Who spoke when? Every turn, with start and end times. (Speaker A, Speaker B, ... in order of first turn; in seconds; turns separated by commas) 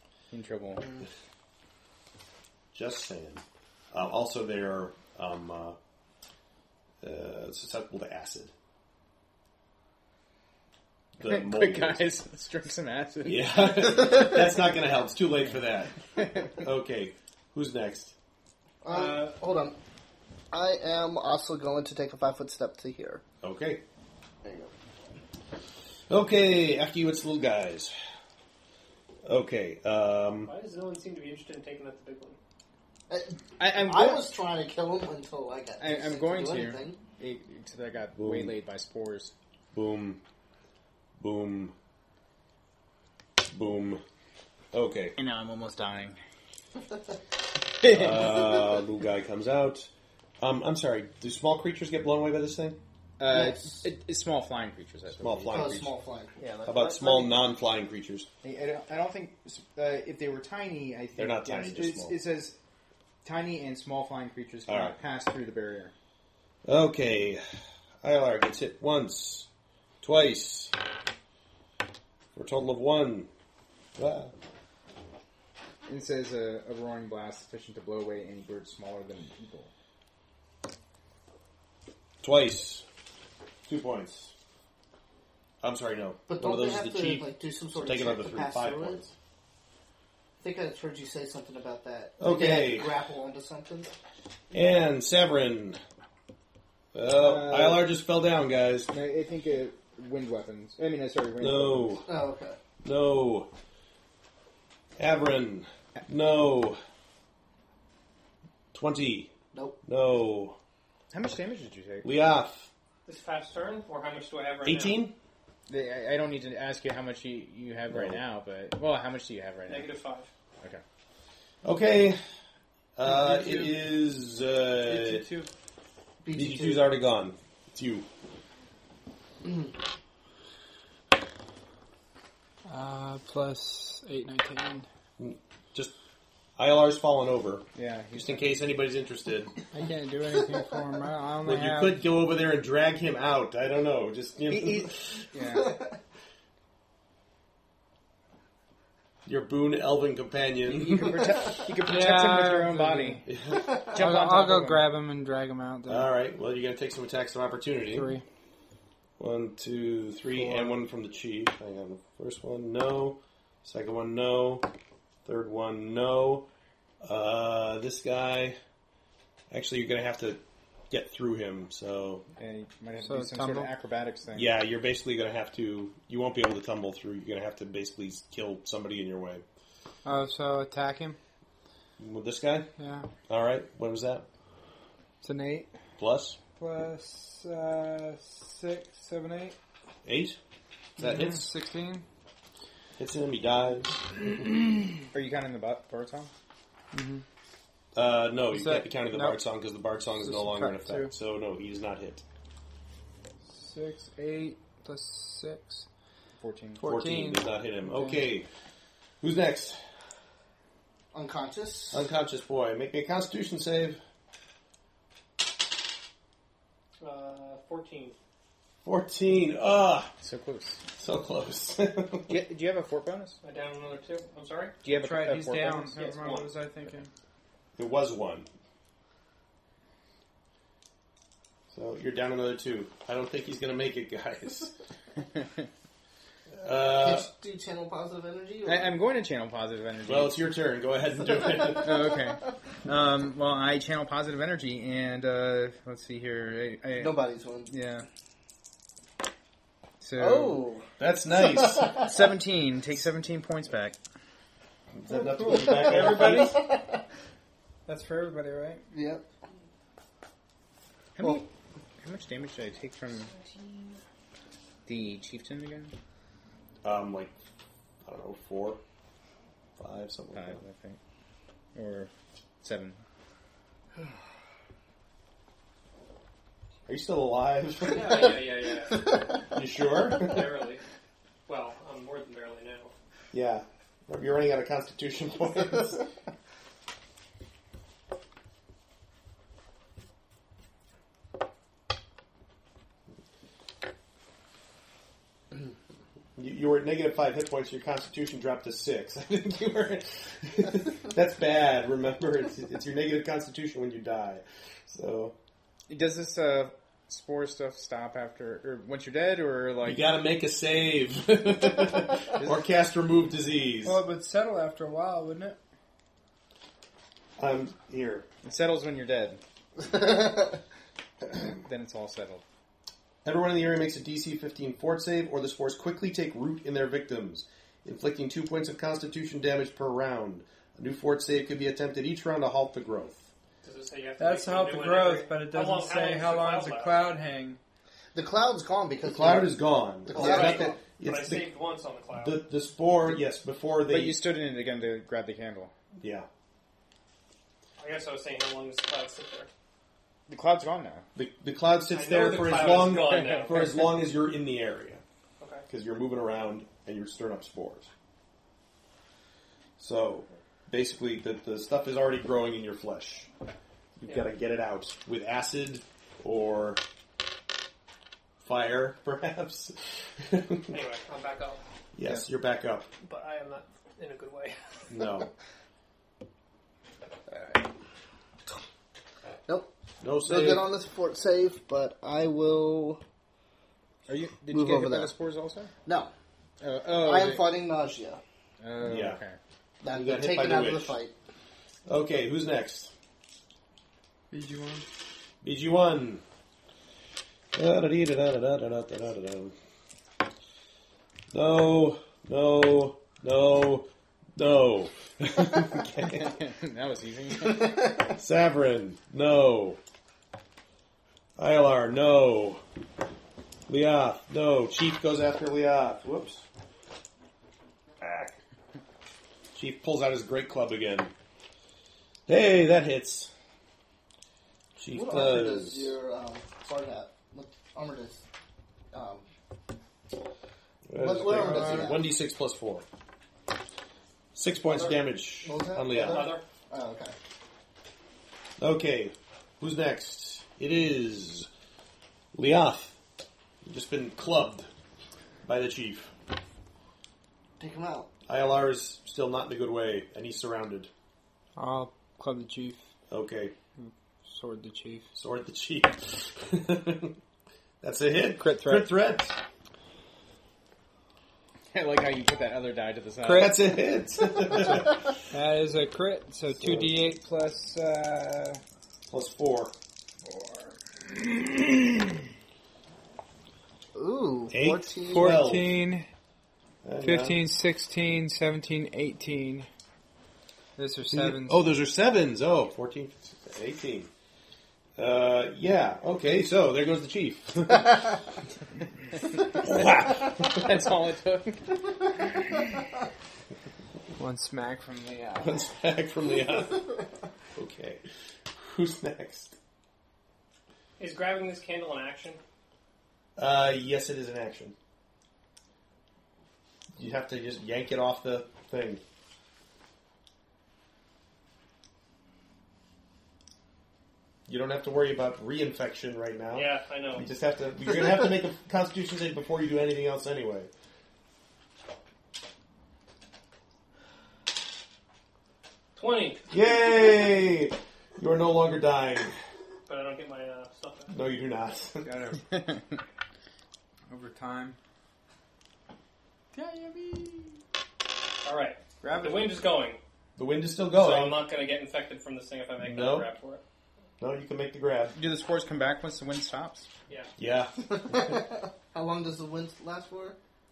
Speaker A: 0.3-1.0, Speaker B: 2.7-5.8, Speaker B: 7.0-8.5, Speaker B: 11.2-12.1, Speaker A: 11.2-14.6, Speaker B: 13.2-18.1, Speaker A: 16.1-16.6, Speaker C: 18.8-19.8, Speaker D: 18.9-19.4, Speaker C: 20.5-23.2, Speaker B: 23.4-23.8, Speaker C: 24.4-24.7, Speaker B: 26.1-27.9, Speaker B: 29.2-30.5, Speaker D: 30.4-32.4, Speaker C: 33.1-37.0, Speaker A: 33.6-34.3, Speaker A: 35.8-39.3, Speaker B: 38.2-38.6, Speaker B: 39.7-40.2, Speaker B: 41.2-41.7, Speaker B: 43.5-44.0, Speaker B: 44.7-45.1, Speaker A: 45.1-46.2, Speaker A: 47.8-48.7, Speaker B: 47.8-52.8, Speaker A: 53.2-57.4, Speaker C: 53.3-53.9, Speaker B: 55.2-55.9, Speaker C: 55.5-56.4, Speaker B: 56.6-58.3, Speaker A: 58.4-62.6, Speaker B: 61.2-62.2, Speaker A: 63.2-65.9, Speaker B: 64.7-64.9, Speaker B: 66.7-67.4, Speaker B: 68.0-69.5, Speaker B: 70.0-70.7, Speaker B: 72.3-73.3, Speaker B: 74.0-74.3, Speaker A: 75.9-79.7, Speaker B: 82.2-82.8, Speaker B: 83.7-84.3, Speaker B: 85.6-89.1, Speaker C: 86.3-89.0, Speaker C: 90.4-93.9, Speaker B: 92.2-92.9, Speaker B: 94.5-95.8, Speaker B: 96.9-98.9, Speaker A: 97.1-97.9, Speaker A: 98.9-102.0, Speaker B: 101.4-102.1, Speaker C: 102.1-102.6, Speaker B: 102.8-103.5, Speaker B: 105.0-106.8, Speaker B: 108.7-109.3, Speaker C: 109.5-109.8, Speaker B: 109.8-110.6, Speaker A: 111.1-112.1, Speaker B: 112.0-112.7, Speaker D: 113.1-115.0, Speaker B: 114.7-115.1, Speaker A: 115.7-119.9, Speaker B: 117.9-118.2, Speaker D: 119.7-120.3, Speaker B: 121.6-122.2, Speaker B: 123.0-125.3, Speaker E: 123.0-123.8, Speaker E: 124.9-125.5, Speaker C: 126.2-126.9, Speaker B: 126.3-128.1, Speaker E: 132.7-134.9, Speaker B: 135.2-135.9, Speaker B: 136.6-139.6, Speaker A: 137.7-138.5, Speaker E: 139.7-142.0, Speaker B: 141.4-145.3, Speaker A: 144.5-145.8, Speaker C: 145.5-145.9, Speaker B: 149.3-151.4, Speaker A: 150.7-154.9, Speaker E: 151.8-153.2, Speaker B: 153.3-153.8, Speaker C: 153.5-154.0, Speaker E: 153.9-156.1, Speaker B: 155.9-158.1, Speaker E: 157.9-158.2, Speaker B: 159.2-164.7, Speaker C: 160.4-160.7, Speaker B: 165.2-166.5, Speaker B: 167.0-168.6, Speaker B: 169.5-172.3, Speaker A: 172.4-174.6, Speaker E: 173.0-173.7, Speaker B: 174.3-179.4, Speaker E: 180.1-181.2, Speaker B: 182.0-182.7, Speaker E: 182.8-183.1, Speaker B: 183.3-184.3, Speaker E: 185.2-185.7, Speaker B: 186.0-186.4, Speaker E: 186.6-189.6, Speaker B: 190.1-190.4, Speaker B: 191.0-191.5, Speaker E: 191.0-192.1, Speaker B: 193.0-194.4, Speaker A: 195.1-196.3, Speaker E: 196.9-197.2, Speaker B: 197.9-202.2, Speaker E: 198.5-199.4, Speaker E: 200.2-201.1, Speaker E: 203.5-205.8, Speaker A: 206.4-206.8, Speaker E: 206.8-208.2, Speaker B: 206.8-208.5, Speaker B: 209.2-209.8, Speaker C: 211.1-212.1, Speaker B: 211.9-214.0, Speaker D: 217.0-218.2, Speaker B: 218.8-220.2, Speaker A: 220.2-220.8, Speaker B: 220.9-222.4, Speaker A: 222.3-223.4, Speaker D: 223.4-224.8, Speaker A: 224.8-226.0, Speaker E: 224.9-227.1, Speaker D: 225.9-226.5, Speaker B: 227.8-228.5, Speaker B: 231.7-234.7, Speaker B: 236.6-237.3, Speaker C: 236.8-238.9, Speaker A: 238.7-240.4, Speaker B: 240.1-242.1, Speaker A: 241.7-248.1, Speaker C: 247.0-247.7, Speaker A: 250.0-250.6, Speaker C: 250.2-252.1, Speaker B: 251.0-252.1, Speaker A: 251.9-254.0, Speaker B: 254.9-256.6, Speaker C: 255.2-257.0, Speaker E: 255.4-256.6, Speaker E: 257.9-258.8, Speaker C: 258.9-259.2, Speaker A: 261.1-261.5, Speaker A: 262.0-263.3, Speaker A: 264.9-265.9, Speaker B: 266.8-267.3, Speaker B: 268.0-268.8, Speaker B: 269.8-270.6, Speaker A: 270.3-271.0, Speaker A: 271.7-272.1, Speaker A: 272.6-273.0, Speaker B: 276.9-278.5, Speaker D: 277.9-280.8, Speaker B: 279.4-280.4, Speaker D: 281.4-282.9, Speaker B: 283.3-286.0, Speaker B: 296.4-305.4, Speaker A: 305.9-310.0, Speaker B: 309.8-314.0, Speaker E: 313.8-315.6, Speaker B: 317.4-318.3, Speaker A: 318.4-319.4, Speaker C: 319.9-320.5, Speaker A: 321.3-322.4, Speaker B: 323.2-333.3, Speaker D: 333.6-337.1, Speaker E: 334.2-337.6, Speaker C: 338.1-340.8, Speaker B: 339.1-341.5, Speaker D: 340.1-342.4, Speaker B: 342.1-344.2, Speaker A: 343.9-345.7, Speaker B: 346.0-346.3, Speaker D: 347.8-349.5, Speaker A: 350.3-351.1, Speaker B: 351.1-355.0, Speaker D: 351.9-353.9, Speaker A: 353.1-353.5, Speaker D: 355.4-355.7, Speaker B: 355.7-357.9, Speaker B: 359.8-363.3, Speaker B: 364.0-366.8, Speaker D: 364.1-364.3, Speaker B: 368.4-370.7, Speaker D: 370.7-371.6, Speaker B: 371.9-372.9, Speaker D: 373.0-374.6, Speaker B: 374.9-375.3, Speaker C: 377.3-377.6, Speaker C: 379.5-383.0, Speaker B: 380.0-380.7, Speaker A: 384.1-385.7, Speaker C: 384.5-385.1, Speaker C: 385.9-386.1, Speaker A: 386.6-387.5, Speaker C: 386.9-388.2, Speaker A: 388.6-389.4, Speaker B: 388.8-389.2, Speaker C: 389.8-391.1, Speaker B: 389.9-390.9, Speaker B: 391.9-392.9, Speaker E: 394.3-394.9, Speaker B: 395.4-396.2, Speaker B: 397.5-399.6, Speaker B: 401.3-406.3, Speaker A: 405.9-408.1, Speaker C: 407.6-408.1, Speaker B: 408.1-409.8, Speaker B: 411.4-412.6, Speaker B: 413.7-416.4, Speaker B: 418.0-418.4, Speaker B: 419.5-421.1, Speaker B: 422.3-423.3, Speaker B: 424.8-425.9, Speaker C: 424.9-428.2, Speaker C: 428.9-429.3, Speaker B: 430.9-432.9, Speaker C: 430.9-432.1, Speaker B: 434.4-436.4, Speaker C: 434.7-437.1, Speaker D: 435.9-436.4, Speaker B: 438.6-441.5, Speaker B: 442.3-443.0, Speaker B: 443.6-444.7, Speaker B: 445.4-446.1, Speaker C: 447.6-448.1, Speaker B: 448.3-450.9, Speaker E: 451.6-452.9, Speaker B: 453.1-453.5, Speaker E: 453.8-455.1, Speaker B: 455.1-457.2, Speaker B: 457.8-459.4, Speaker E: 458.4-458.9, Speaker A: 461.7-463.7, Speaker E: 463.2-463.5, Speaker B: 463.2-465.1, Speaker E: 465.3-468.6, Speaker B: 466.6-466.9, Speaker B: 469.1-469.7, Speaker E: 470.2-472.1, Speaker C: 473.9-475.4, Speaker B: 474.5-475.7, Speaker E: 475.1-476.1, Speaker B: 476.8-477.4, Speaker E: 477.0-479.7, Speaker E: 480.8-481.6, Speaker B: 481.1-484.1, Speaker B: 485.0-488.2, Speaker B: 489.5-490.7, Speaker A: 489.7-492.6, Speaker E: 494.1-495.7, Speaker B: 495.4-497.0, Speaker B: 497.6-498.0, Speaker B: 498.5-499.6, Speaker D: 501.0-502.4, Speaker B: 503.4-504.8, Speaker B: 507.0-509.0, Speaker B: 514.5-520.7, Speaker D: 516.5-517.3, Speaker D: 525.9-526.5, Speaker B: 526.5-529.3, Speaker D: 529.9-531.1, Speaker B: 531.1-532.1, Speaker E: 532.0-532.6, Speaker E: 534.1-534.8, Speaker E: 536.5-537.6, Speaker D: 538.4-540.0, Speaker E: 539.0-539.6, Speaker B: 540.4-541.4, Speaker D: 540.9-543.6, Speaker B: 542.8-543.3, Speaker B: 544.2-545.1, Speaker A: 545.1-546.9, Speaker B: 547.4-548.4, Speaker C: 547.9-550.4